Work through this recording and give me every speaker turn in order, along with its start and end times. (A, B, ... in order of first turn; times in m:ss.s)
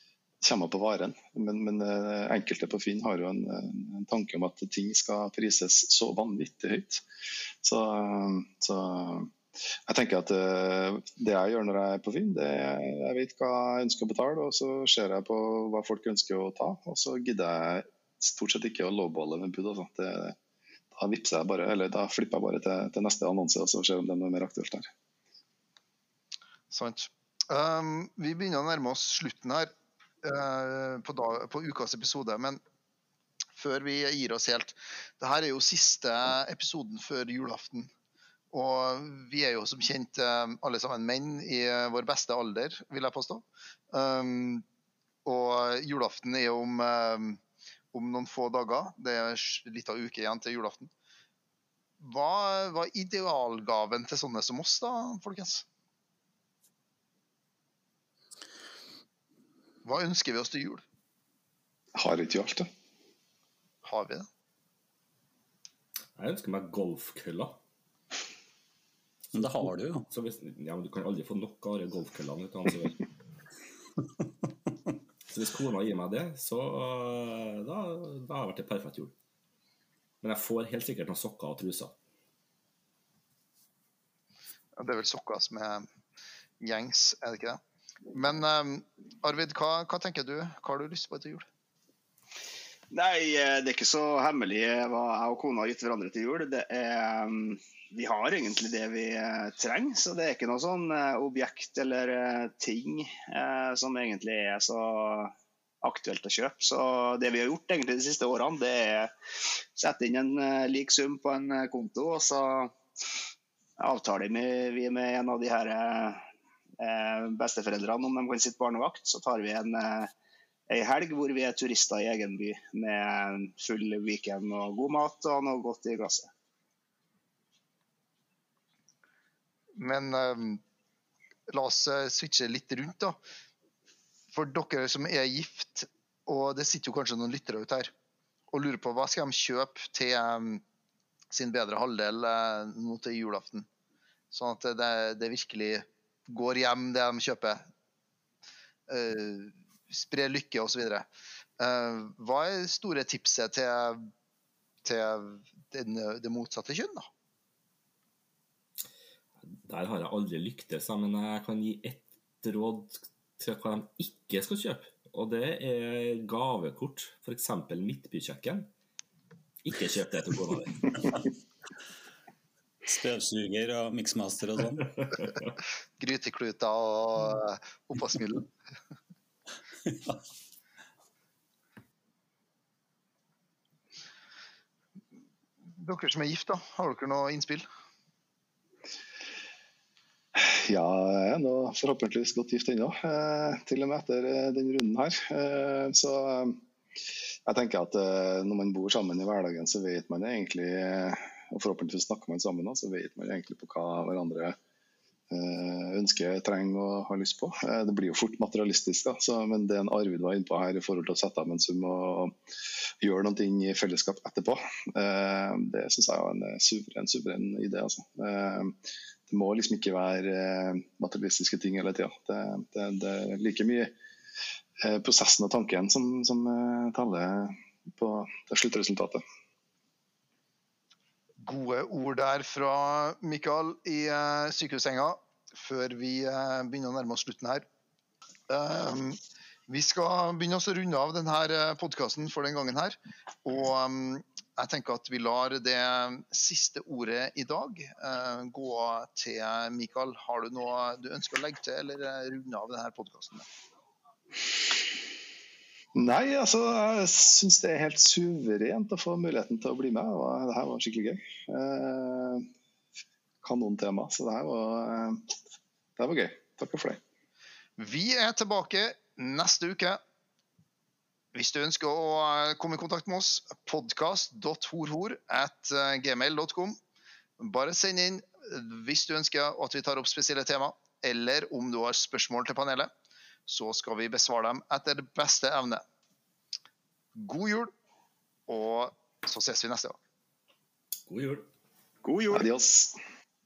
0:00.4-0:07.0 A
0:07.6-0:09.3 A
0:09.9-0:20.4 A
0:20.9-0:24.9 A
0:26.7-0:29.7 B
0:30.2-0:32.6 B
0:33.5-0:37.9 B
0:38.5-0:44.6 B
0:45.2-0:47.4 B
0:47.9-0:50.9 B
0:52.0-0:55.6 B
0:59.8-1:00.8 B
1:01.9-1:02.7 A
1:03.8-1:04.2 B
1:06.2-1:07.6 C
1:09.3-1:10.0 D
1:10.1-1:13.1 C
1:15.3-1:19.1 C
1:20.2-1:22.0 C
1:24.8-1:25.8 B
1:26.6-1:27.6 B
1:28.1-1:31.5 B
1:32.9-1:49.1 E
1:49.8-1:52.8 E
1:53.8-1:56.2 E
1:56.8-2:00.1 E
2:00.7-2:06.3 E
2:09.8-2:10.6 B
2:11.5-2:13.2 B
2:14.3-2:17.9 B
2:18.5-2:20.6 B
2:21.3-2:23.7 B
2:24.3-2:27.6 B
2:28.9-2:31.1 B
2:31.6-2:34.1 B
2:34.8-2:37.1 B
2:39.4-2:48.7 C
2:49.6-2:51.2 C
2:52.8-2:55.2 D
2:56.0-2:58.5 B
2:59.9-3:00.2 D
3:05.8-3:07.7 B
3:10.3-3:16.6 A
3:17.4-3:24.6 A
3:25.3-3:32.4 A
3:33.0-3:44.0 A
3:44.8-3:49.2 A
3:51.4-3:57.6 B
3:58.5-4:13.4 B
4:15.9-4:22.5 A
4:23.4-4:25.3 A
4:26.0-4:27.0 A
4:27.8-4:30.0 B
4:31.3-4:36.8 B
4:37.4-4:42.9 B
4:43.5-4:45.8 B
4:47.1-4:47.7 B
4:48.5-4:50.0 B
4:51.1-4:51.5 C
4:52.0-4:52.5 E
4:52.3-4:53.0 A